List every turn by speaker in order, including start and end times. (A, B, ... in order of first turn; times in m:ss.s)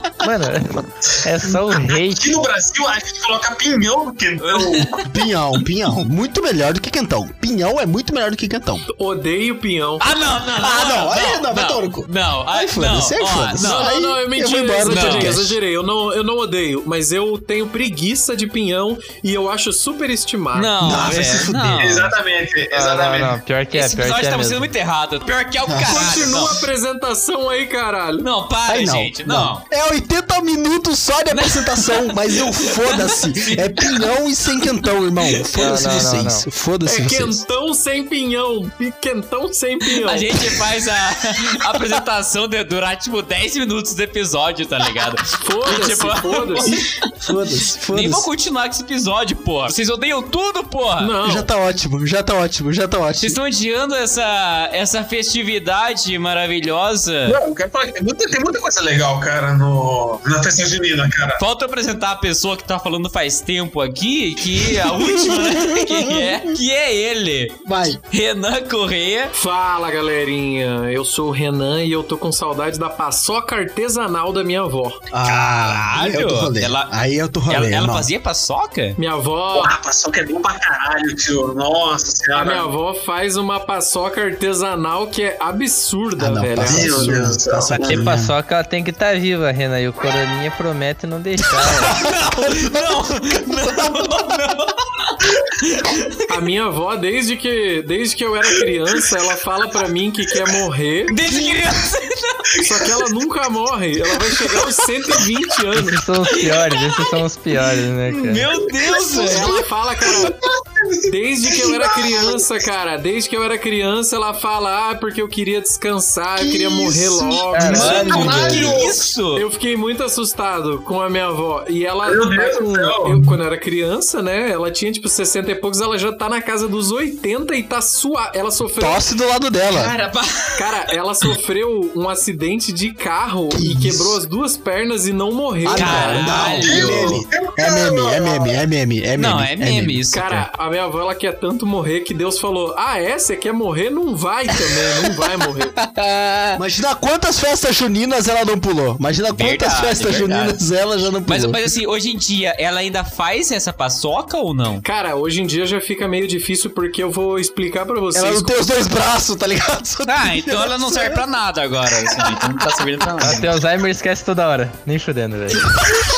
0:00.2-0:02.4 A
0:01.9-0:04.9 B
0:04.4-0:05.0 C
0:05.1-0:08.8 D
0:08.9-0:10.1 E
0:10.0-0:13.9 C
0:10.6-0:15.6 D
0:13.6-0:21.3 E
0:14.8-0:15.4 C
0:20.5-0:22.1 C
0:20.8-0:21.8 D
0:21.8-0:23.4 B
0:22.7-0:24.7 A
0:23.7-0:26.7 C
0:25.7-0:26.1 D
0:25.8-0:28.3 E
0:28.2-0:29.6 C
0:28.7-0:37.4 D
0:31.3-0:34.0 C
0:35.6-0:36.5 A
0:36.9-0:40.6 E
0:40.0-0:51.2 C
0:45.4-0:46.8 E
0:47.2-0:48.3 D
0:51.0-0:51.5 E
0:51.2-0:53.4 D
0:53.2-0:57.4 C
0:57.3-1:01.4 B
1:01.4-1:09.3 C
1:04.8-1:06.4 D
1:07.6-1:08.0 D
1:09.3-1:15.0 E
1:15.1-1:18.1 D
1:15.2-1:16.9 C
1:17.5-1:19.0 C
1:19.0-1:19.7 E
1:19.5-1:22.7 B
1:22.4-1:27.2 E
1:26.2-1:28.4 D
1:26.6-1:27.7 B
1:27.7-1:28.0 C
1:27.8-1:31.9 A
1:31.8-1:36.2 C
1:31.8-1:34.3 D
1:36.3-1:41.2 E
1:41.1-1:42.6 C
1:42.6-1:46.0 E
1:44.2-1:44.7 C
1:45.8-1:48.5 A
1:46.3-1:47.2 C
1:48.1-1:49.6 C
1:49.2-1:50.4 E
1:50.0-1:52.5 B
1:51.1-1:58.5 E
1:56.4-1:58.7 D
1:57.5-1:58.4 A
1:57.7-1:59.5 C
1:57.8-1:59.1 B
1:59.3-2:09.0 E
2:02.0-2:03.4 B
2:08.8-2:09.9 D
2:09.7-2:11.3 C
2:10.6-2:17.2 E
2:13.5-2:14.2 D
2:15.6-2:20.4 D
2:15.7-2:17.2 C
2:16.6-2:18.6 B
2:19.2-2:20.2 C
2:20.1-2:25.7 E
2:25.8-2:26.6 C
2:26.6-2:31.7 D
2:29.3-2:30.6 C
2:31.3-2:34.8 C
2:34.8-2:38.5 E
2:38.1-2:41.2 D
2:40.1-2:43.5 C
2:42.1-2:42.5 D
2:43.2-2:45.7 A